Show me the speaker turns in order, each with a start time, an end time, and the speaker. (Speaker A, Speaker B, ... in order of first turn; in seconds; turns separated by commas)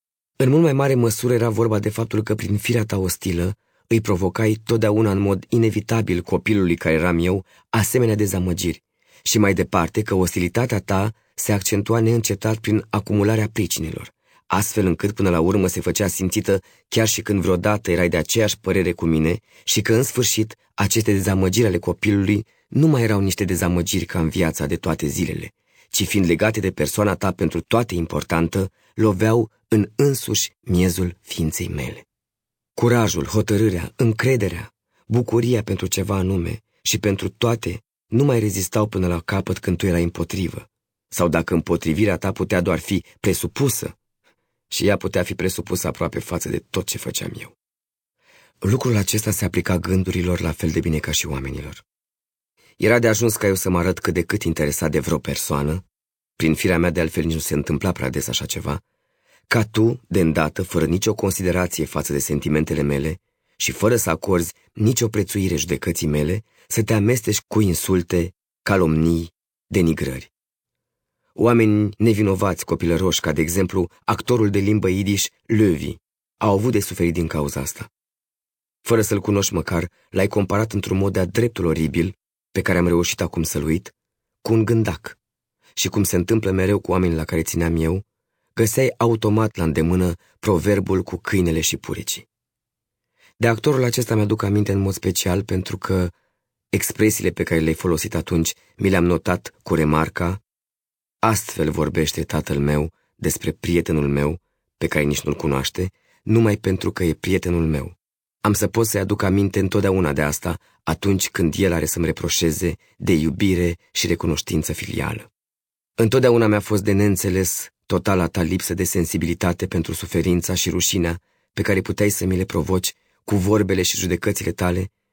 Speaker A: 0.4-32.0, Speaker A: 32.8-43.9, Speaker A: 44.7-47.5, Speaker A: 48.6-51.8, Speaker A: 52.8-55.8, Speaker A: 56.4-58.8, Speaker A: 59.5-70.3, Speaker A: 71.3-77.9, Speaker A: 78.8-85.2, Speaker A: 85.8-92.2, Speaker A: 93.4-96.1, Speaker A: 96.7-100.4, Speaker A: 101.2-115.3, Speaker A: 116.0-124.9